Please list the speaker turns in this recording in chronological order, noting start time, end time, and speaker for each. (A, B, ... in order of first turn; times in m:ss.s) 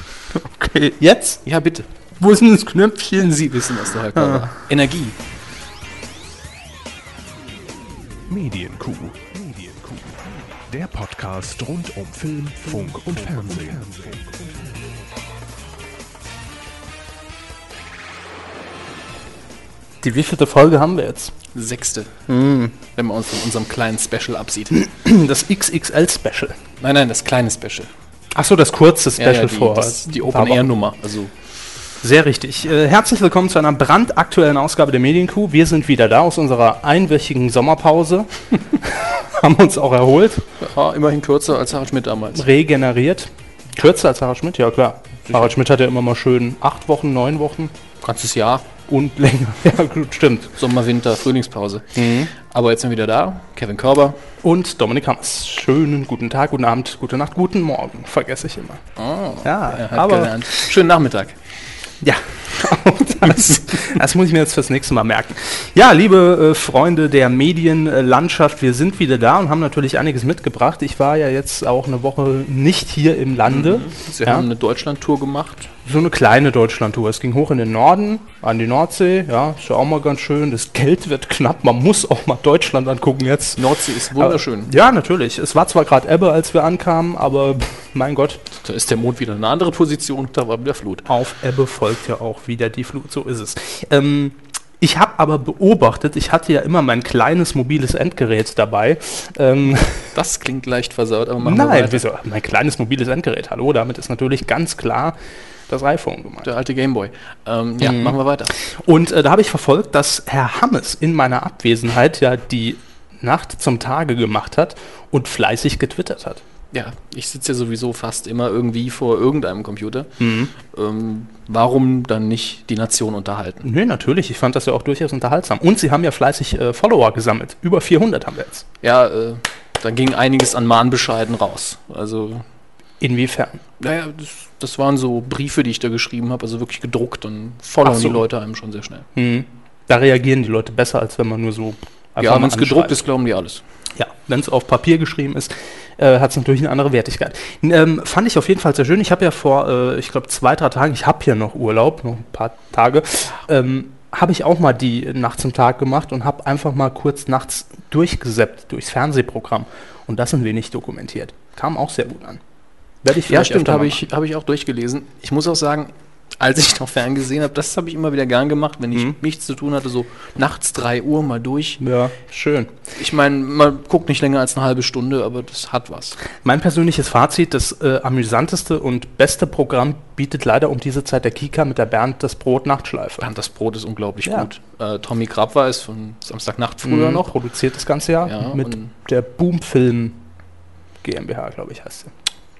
0:00.3-0:01.4 A
0:01.4-0:01.9 B
0:02.2-0:03.5 A
0:03.2-0:05.2 B
0:04.1-0:04.5 A
0:08.3-0:15.0 C
0:20.0-0:21.3 A
0:21.5-0:22.2 B
0:22.3-0:22.8 A
0:22.9-0:24.8 B
0:24.7-0:26.6 A
0:26.8-0:27.9 B
0:28.3-0:30.7 A
0:29.2-0:31.3 B
0:32.0-0:40.4 A
0:40.6-0:42.5 B
0:42.3-0:47.7 A
0:48.0-0:48.6 B
0:48.9-0:50.6 A
0:50.6-0:54.2 B
0:51.9-0:52.3 A
0:54.4-0:58.8 A
0:59.0-1:01.4 B
0:59.4-1:00.5 A
1:02.0-1:14.5 A
1:03.2-1:03.9 B
1:13.5-1:15.7 B
1:15.8-1:23.6 A
1:23.6-1:24.7 B
1:24.2-1:28.4 A
1:28.6-1:31.0 B
1:31.1-1:40.1 A
1:40.1-1:42.0 B
1:41.4-1:45.2 A
1:45.7-1:46.5 A
1:46.4-1:48.5 B
1:47.8-1:56.4 A
1:56.7-2:03.7 B
2:00.2-2:00.5 A
2:03.6-2:08.6 A
2:08.8-2:12.4 B
2:13.0-2:13.6 A
2:13.8-2:19.1 B
2:17.8-2:18.2 A
2:19.2-2:23.0 A
2:22.2-2:23.6 B
2:24.0-2:42.4 A
2:43.0-2:44.1 A
2:43.3-2:51.8 B
2:51.8-2:52.7 A
2:52.9-2:56.2 B
2:56.4-3:03.3 A
3:03.2-3:07.3 B
3:06.8-3:10.2 A
3:08.2-3:08.9 B
3:11.0-3:12.1 A